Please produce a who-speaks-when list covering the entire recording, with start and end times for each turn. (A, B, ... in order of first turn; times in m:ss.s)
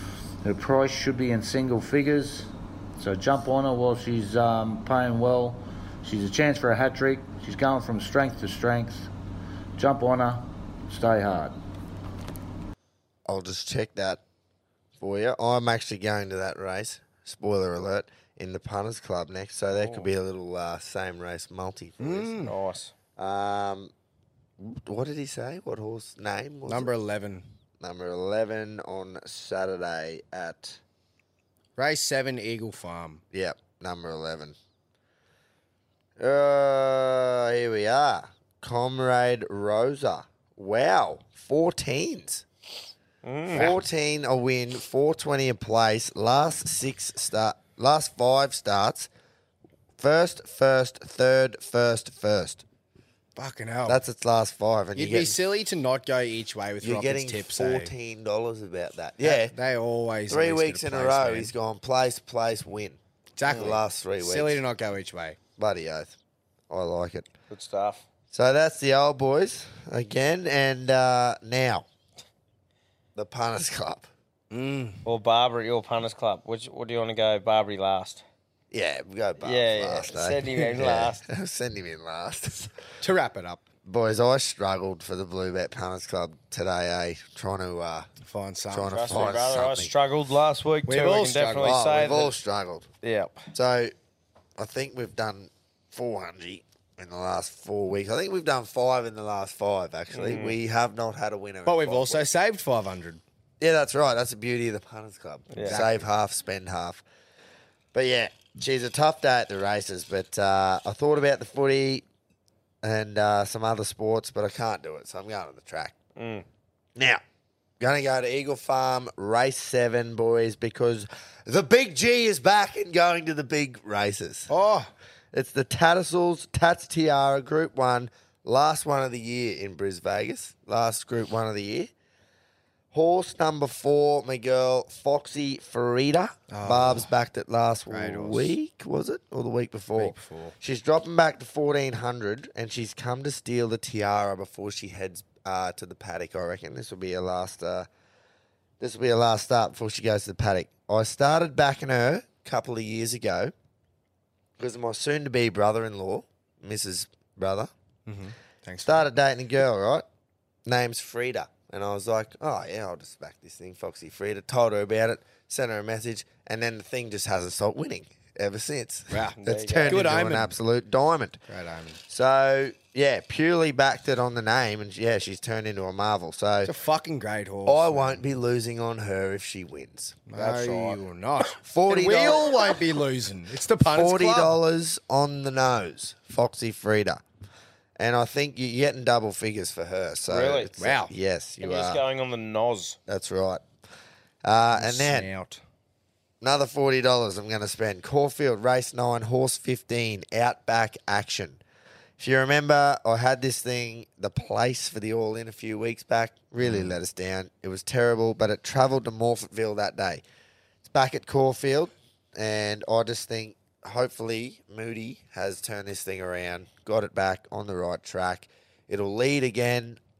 0:00.4-0:09.1 A
0:09.8-0:11.6 A
0:13.2-0:14.2 B
0:15.0-0:22.3 B
0:19.7-0:20.1 C
0:22.0-0:22.5 D
0:22.4-0:22.9 C
0:23.2-0:23.9 B
0:24.6-0:26.9 B
0:26.7-0:27.5 D
0:27.8-0:30.8 B
0:31.8-0:33.2 D
0:33.3-0:34.6 B
0:36.2-0:42.4 B
0:43.2-0:43.7 C
0:43.5-0:49.1 B
0:43.5-0:43.8 D
0:50.0-0:52.6 B
0:53.4-0:54.0 D
0:53.8-0:55.4 B
0:54.9-0:57.9 D
0:56.8-0:59.5 B
0:59.2-1:01.5 D
1:00.3-1:04.6 B
1:03.4-1:05.4 D
1:03.5-1:03.8 C
1:05.6-1:06.2 B
1:06.7-1:07.3 B
1:07.5-1:08.0 C
1:08.3-1:11.8 B
1:13.2-1:14.1 B
1:14.5-1:15.0 D
1:15.0-1:18.2 C
1:18.7-1:22.7 B
1:19.4-1:21.2 C
1:23.0-1:23.6 D
1:23.8-1:28.1 B
1:28.2-1:29.1 D
1:28.7-1:29.9 B
1:28.9-1:32.4 C
1:30.9-1:31.8 D
1:31.6-1:32.9 B
1:33.0-1:33.5 C
1:33.5-1:33.9 B
1:34.6-1:42.3 B
1:40.1-1:40.6 C
1:41.6-1:43.2 D
1:43.6-1:47.0 B
1:45.5-1:45.8 C
1:45.6-1:46.1 D
1:47.9-1:52.0 B
1:52.8-1:55.9 B
1:56.2-1:56.4 C
1:57.0-1:57.2 B
1:57.8-2:04.5 B
2:04.5-2:04.9 D
2:05.3-2:11.9 B
2:12.9-2:27.9 B
2:16.5-2:17.1 D
2:17.9-2:18.6 D
2:20.0-2:20.6 D
2:28.8-2:33.5 B
2:34.6-2:37.7 B
2:38.0-2:39.1 D
2:38.8-2:40.0 B
2:40.6-2:51.4 B
2:49.1-2:50.5 D
2:49.4-2:50.1 C
2:51.5-2:52.0 D
2:52.1-2:56.7 B
2:56.6-2:58.2 D
2:57.6-3:00.2 B
3:00.3-3:04.6 D
3:00.4-3:01.0 C
3:01.6-3:02.6 B
3:03.9-3:07.2 B
3:08.0-3:12.0 B
3:10.3-3:10.7 C
3:10.8-3:11.1 D
3:11.6-3:13.0 C
3:13.1-3:13.6 B
3:14.4-3:15.3 B
3:14.7-3:15.6 D
3:16.4-3:21.6 B
3:22.2-3:30.2 B
3:26.6-3:26.9 D
3:30.8-3:40.0 B